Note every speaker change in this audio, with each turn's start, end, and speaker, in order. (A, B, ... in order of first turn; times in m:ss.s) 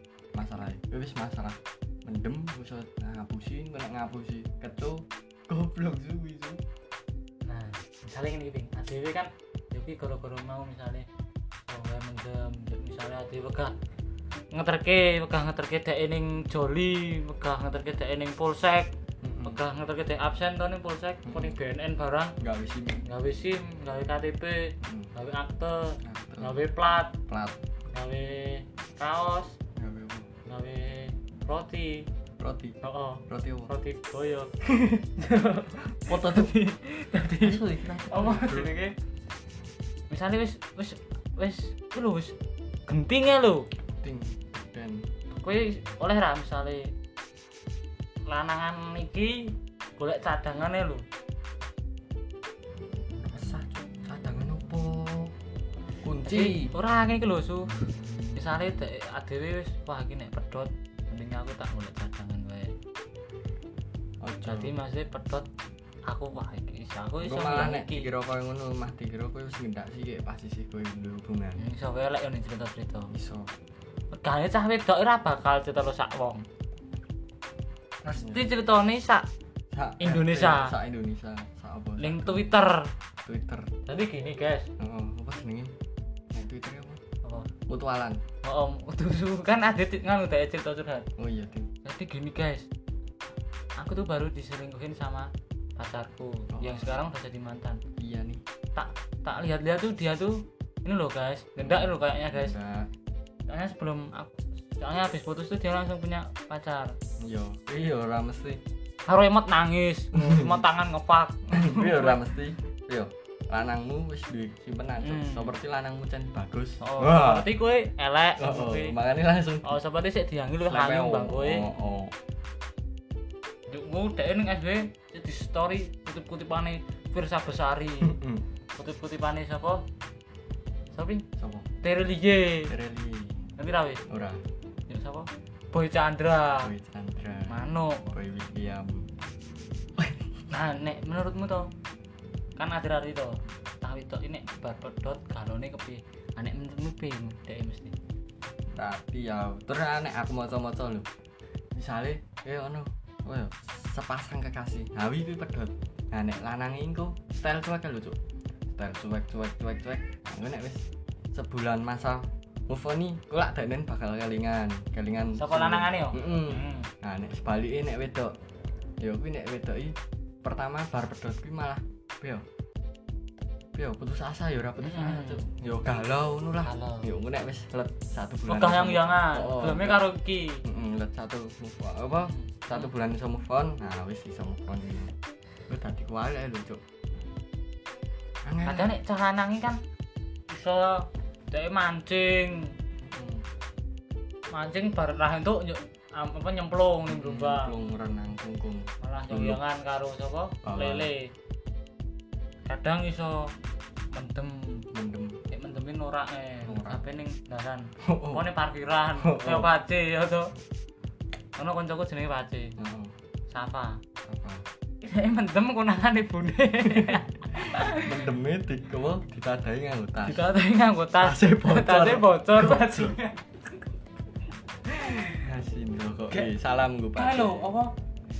0:00.3-0:06.6 A
0:07.5-0:11.1 B
0:11.7-0:13.8 B
0:14.5-0:18.9 B
0:19.2-0:19.6 A
0:19.4-0:22.4 B
0:21.2-0:21.6 A
0:22.4-0:23.0 A
0:23.0-0:27.2 B
0:24.8-0:25.1 A
0:26.0-0:26.6 A
0:27.3-0:27.6 A
0:27.9-0:29.6 B
0:29.8-0:30.3 A
0:30.5-0:32.1 B
0:32.4-0:32.8 A
0:32.8-0:34.5 B
0:33.3-0:33.7 A
0:34.6-0:35.1 A
0:35.2-0:39.0 B
0:35.9-0:36.5 A
0:37.4-0:38.7 A
0:40.1-0:42.4 B
0:42.9-0:43.7 B
0:44.0-0:45.1 A
0:45.3-0:46.9 B
0:48.3-0:51.0 B
0:53.2-0:55.3 A
0:56.0-0:56.7 A
0:56.2-0:57.8 B
0:58.0-0:58.4 A
0:58.4-1:02.7 B
1:04.2-1:04.7 A
1:04.4-1:05.5 B
1:06.1-1:08.1 B
1:07.2-1:11.7 A
1:11.6-1:13.1 B
1:13.1-1:13.5 A
1:14.1-1:16.4 B
1:18.0-1:18.5 A
1:18.2-1:19.3 B
1:19.7-1:22.5 A
1:20.0-1:20.7 B
1:22.0-1:22.9 B
1:23.2-1:23.7 A
1:23.9-1:24.7 B
1:24.8-1:25.7 A
1:26.3-1:27.0 A
1:27.7-1:28.2 A
1:28.4-1:31.1 B
1:31.2-1:31.7 A
1:31.8-1:32.7 B
1:33.8-1:37.8 B
1:36.5-1:37.0 A
1:38.0-1:38.4 A
1:38.8-1:42.6 B
1:41.6-1:42.9 A
1:43.5-1:47.0 B
1:47.2-1:48.6 A
1:49.1-1:52.2 B
1:50.1-1:50.6 A
1:51.5-1:57.5 A
1:55.0-1:55.6 B
1:56.8-1:59.0 B
1:58.4-1:59.8 A
1:59.6-2:01.7 B
2:00.6-2:02.1 A
2:03.7-2:08.2 B
2:08.0-2:08.4 A
2:08.8-2:09.8 B
2:10.9-2:11.2 B
2:11.4-2:11.7 A
2:11.8-2:12.7 B
2:12.7-2:13.5 A
2:13.6-2:14.0 B
2:14.1-2:14.4 A
2:14.9-2:16.7 B
2:16.6-2:19.1 A
2:17.5-2:18.1 B
2:20.0-2:20.3 A
2:20.5-2:21.7 B
2:22.6-2:28.0 B
2:28.7-2:31.1 A
2:31.8-2:38.2 A
2:38.7-2:48.4 A
2:45.4-2:46.9 B
2:49.0-2:52.4 A
2:53.7-3:00.0 A
2:54.8-2:55.5 B
2:56.6-2:57.1 B
2:58.5-3:00.6 B
3:00.6-3:05.1 A
3:02.3-3:02.9 B
3:05.7-3:06.8 A
3:08.4-3:08.9 A
3:08.6-3:09.8 B
3:10.5-3:12.7 B
3:13.0-3:13.4 A
3:14.5-3:17.7 B
3:17.1-3:19.6 A
3:19.0-3:21.3 B
3:20.6-3:21.1 A
3:22.7-3:23.5 B
3:24.1-3:24.9 B
3:24.9-3:25.4 A
3:25.5-3:30.5 B
3:26.6-3:27.1 A
3:28.0-3:28.4 A
3:29.2-3:29.7 A
3:31.6-3:32.8 B
3:32.8-3:33.1 A
3:33.5-3:34.0 B
3:34.2-3:34.6 A
3:35.0-3:38.3 B
3:36.8-3:40.5 A
3:40.2-3:43.4 B
3:41.2-3:43.2 A
3:44.9-3:47.7 A
3:45.0-3:45.3 B
3:47.2-3:47.9 B